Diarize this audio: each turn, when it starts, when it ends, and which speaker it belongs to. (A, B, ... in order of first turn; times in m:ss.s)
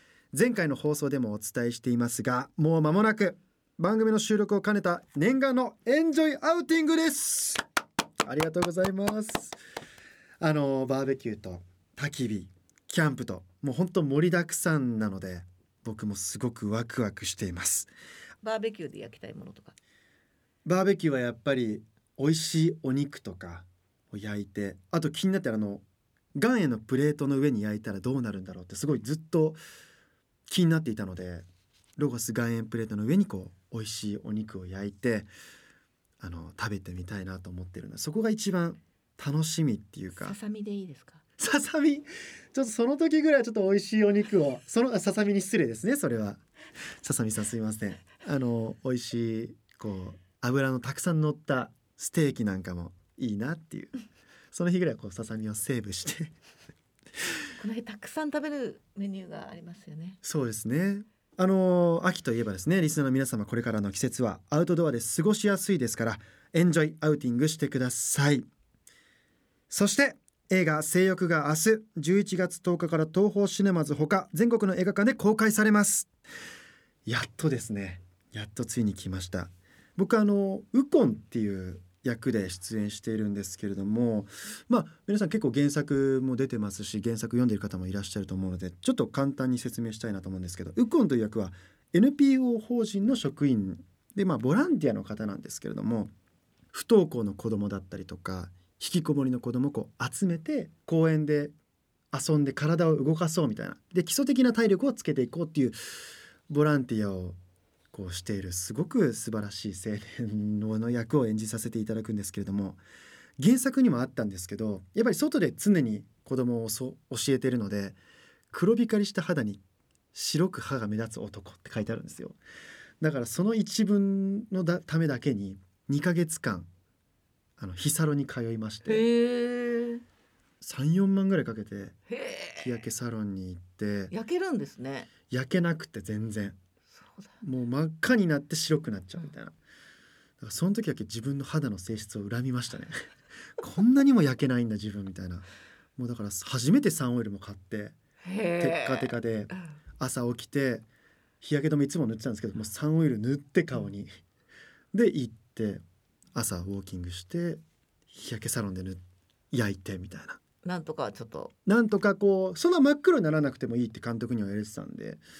0:00.3-0:07.6 A
0:08.2-0:09.6 A
0:10.4-0:17.9 A
0:18.4-0:19.8 B
0:20.6-0:25.8 A
0:26.4-0:29.6 A
0:30.5-0:31.5 A
0:32.0-0:35.3 A
0:36.2-0:40.4 A
0:40.2-0:41.2 B
0:41.4-0:46.4 A
0:47.0-0:53.9 A
0:54.5-0:56.4 A
0:57.6-1:00.2 B
1:00.2-1:08.5 A
1:09.7-1:16.1 A
1:17.1-1:36.1 A
1:36.7-1:41.5 A
1:42.1-1:45.8 A
1:46.5-1:47.4 A
1:47.9-1:52.8 A
1:53.4-1:58.0 A
1:58.5-1:59.6 A
2:00.1-2:02.4 A
2:03.0-2:06.7 A
2:07.6-2:09.0 A
2:08.9-2:10.0 B
2:10.6-2:12.0 A
2:12.1-2:12.7 B
2:12.6-2:14.1 A
2:14.1-2:15.1 B
2:15.3-2:16.6 A
2:16.9-2:17.3 B
2:17.4-2:19.6 A
2:20.4-2:23.0 A
2:23.6-2:28.0 A
2:28.2-2:29.6 B
2:28.6-2:30.9 A
2:31.4-2:34.1 A
2:34.9-2:35.8 A
2:36.3-2:40.4 A
2:40.6-2:41.5 B
2:41.7-2:45.2 A